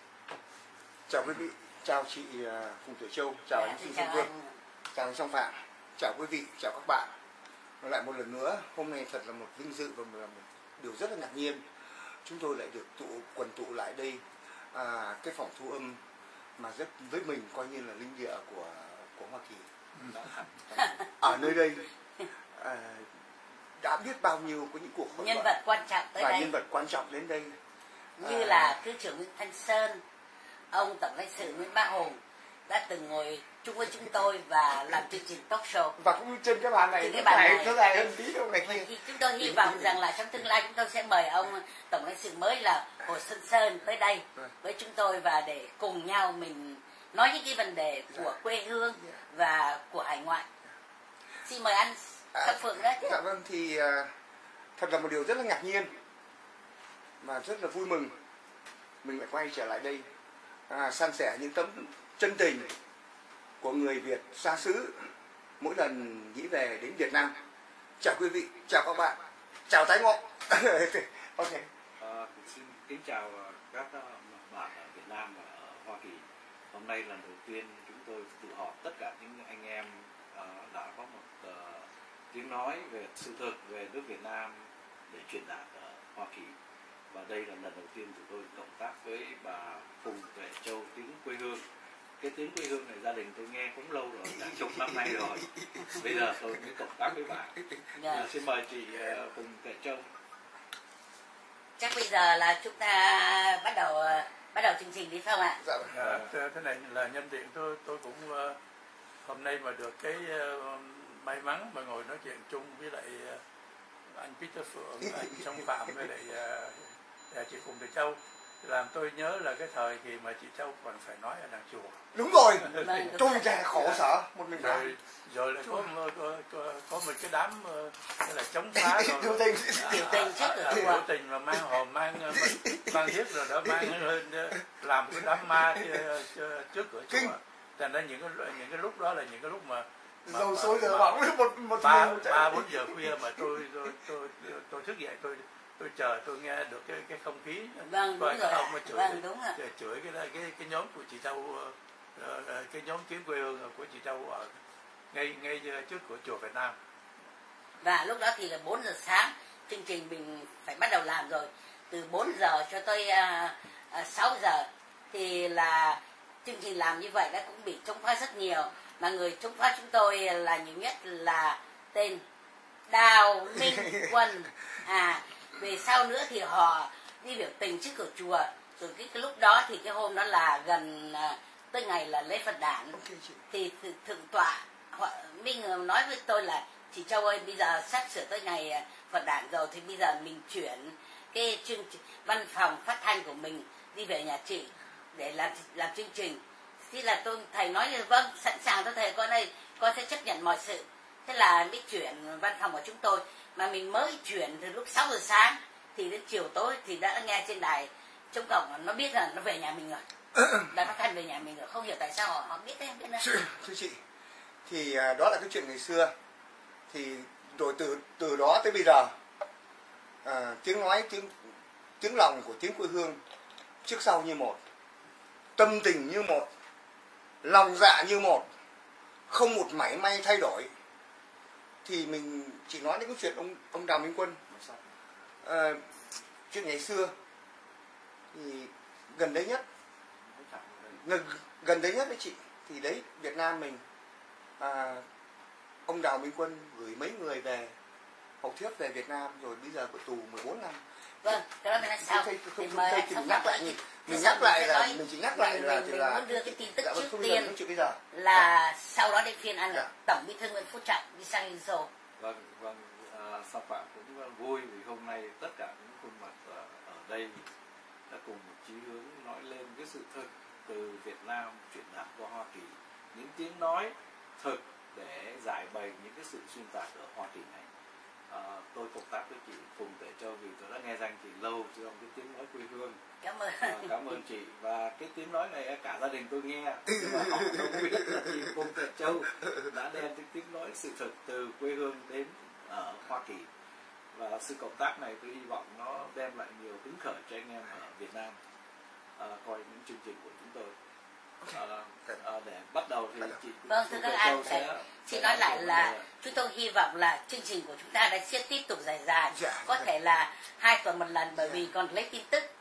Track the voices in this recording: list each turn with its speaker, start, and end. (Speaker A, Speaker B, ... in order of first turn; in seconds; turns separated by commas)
Speaker A: 1.1-4.3, Speaker B: 3.6-4.5, Speaker A: 4.9-7.1, Speaker A: 7.8-11.6, Speaker A: 12.2-16.0, Speaker A: 16.6-19.7, Speaker C: 20.0-20.9, Speaker B: 20.7-21.4, Speaker A: 21.2-21.9, Speaker A: 22.5-23.1, Speaker A: 23.8-25.5, Speaker B: 25.1-26.5, Speaker A: 26.2-27.6, Speaker B: 28.2-30.0, Speaker A: 28.2-28.8, Speaker B: 30.7-35.9, Speaker A: 36.0-40.0, Speaker B: 37.0-50.5, Speaker B: 51.4-53.1, Speaker A: 52.3-54.1, Speaker A: 54.8-55.9, Speaker A: 57.2-58.1, Speaker A: 59.0-60.0, Speaker A: 60.7-62.7, Speaker A: 63.6-67.3, Speaker A: 68.0-71.7, Speaker C: 72.0-86.5, Speaker C: 87.1-91.6, Speaker C: 92.2-100.1, Speaker A: 94.4-96.0, Speaker B: 95.9-96.2, Speaker B: 98.0-98.3, Speaker B: 101.8-105.6, Speaker A: 105.6-106.0, Speaker D: 105.9-108.6, Speaker D: 109.2-113.4, Speaker D: 114.1-122.1, Speaker A: 122.1-124.9, Speaker D: 122.6-123.2, Speaker B: 122.8-124.0, Speaker D: 124.5-141.2, Speaker A: 128.7-130.9, Speaker B: 129.8-131.0, Speaker A: 132.3-133.9, Speaker A: 135.5-136.0, Speaker A: 140.2-143.1, Speaker D: 141.8-154.5, Speaker B: 147.8-149.6, Speaker D: 155.1-156.8, Speaker B: 157.8-172.2, Speaker B: 172.9-183.0, Speaker A: 173.6-174.1, Speaker A: 182.9-183.4, Speaker B: 183.5-210.0, Speaker A: 210.3-210.7, Speaker B: 210.7-213.2, Speaker A: 213.2-214.0, Speaker A: 214.7-216.1, Speaker A: 216.9-219.1, Speaker A: 220.2-221.4, Speaker A: 222.0-223.2, Speaker A: 223.8-224.6, Speaker A: 225.6-226.5, Speaker A: 227.4-228.4, Speaker A: 229.3-230.7, Speaker A: 231.8-234.4, Speaker C: 234.5-234.8, Speaker A: 235.4-235.9, Speaker A: 236.5-237.1, Speaker A: 238.3-239.6, Speaker C: 240.2-241.0, Speaker A: 241.0-243.8, Speaker A: 244.6-245.0, Speaker A: 245.9-247.7, Speaker A: 248.4-258.5, Speaker B: 251.2-257.5, Speaker B: 258.1-261.9, Speaker C: 262.2-267.4, Speaker C: 268.1-277.7, Speaker C: 278.3-283.0, Speaker B: 283.2-283.9, Speaker C: 283.6-293.5, Speaker A: 286.9-288.2, Speaker C: 294.1-298.4, Speaker C: 299.2-300.7, Speaker C: 301.5-306.2, Speaker B: 303.7-312.5, Speaker A: 309.3-309.9, Speaker A: 311.4-311.6